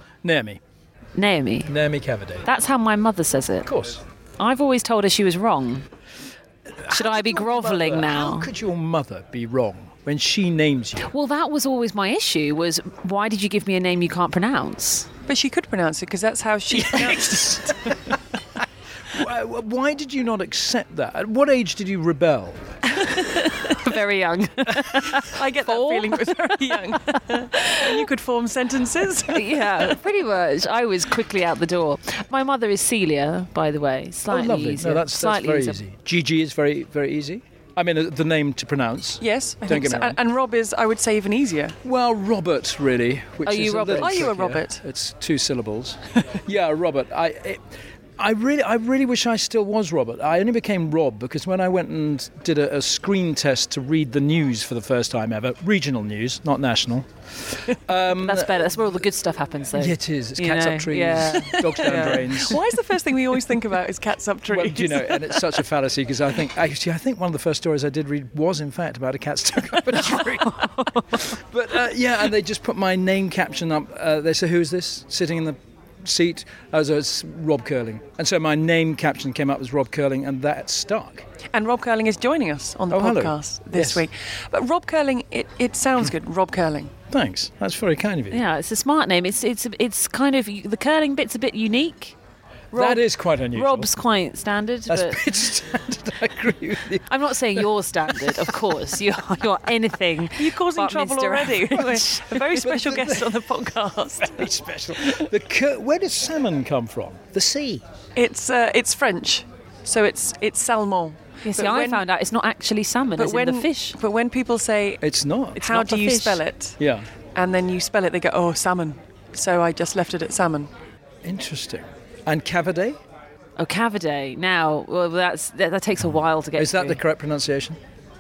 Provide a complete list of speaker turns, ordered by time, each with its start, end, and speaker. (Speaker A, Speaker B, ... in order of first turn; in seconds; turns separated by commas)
Speaker A: 0.2-0.6, Speaker B: 1.2-1.7, Speaker A: 1.7-2.5, Speaker B: 2.5-3.7, Speaker A: 3.6-4.0, Speaker B: 4.4-5.9, Speaker A: 6.7-11.1, Speaker B: 6.9-8.5, Speaker B: 11.1-15.1, Speaker C: 15.3-18.1, Speaker A: 19.1-22.6, Speaker B: 22.9-28.0, Speaker C: 25.1-30.0, Speaker B: 29.3-35.8, Speaker A: 34.3-40.2, Speaker C: 39.2-41.8, Speaker A: 41.8-58.8, Speaker B: 43.5-44.2, Speaker C: 44.0-44.8, Speaker B: 58.1-62.4, Speaker A: 59.7-62.6, Speaker C: 61.5-65.6, Speaker A: 64.5-81.3, Speaker B: 70.2-71.3, Speaker C: 81.5-87.0, Speaker A: 82.9-84.0, Speaker A: 87.1-88.4, Speaker B: 88.3-92.2, Speaker A: 92.7-93.9, Speaker B: 92.7-95.2, Speaker A: 94.9-98.6, Speaker B: 97.1-102.2, Speaker C: 100.4-104.5, Speaker A: 101.7-107.8, Speaker C: 108.2-112.0, Speaker B: 111.5-114.0, Speaker C: 113.2-115.0, Speaker A: 115.0-115.8, Speaker C: 115.6-116.8, Speaker B: 115.7-116.4, Speaker A: 116.8-117.1, Speaker C: 117.3-120.7, Speaker A: 121.2-123.0, Speaker B: 123.6-127.0, Speaker A: 126.6-127.8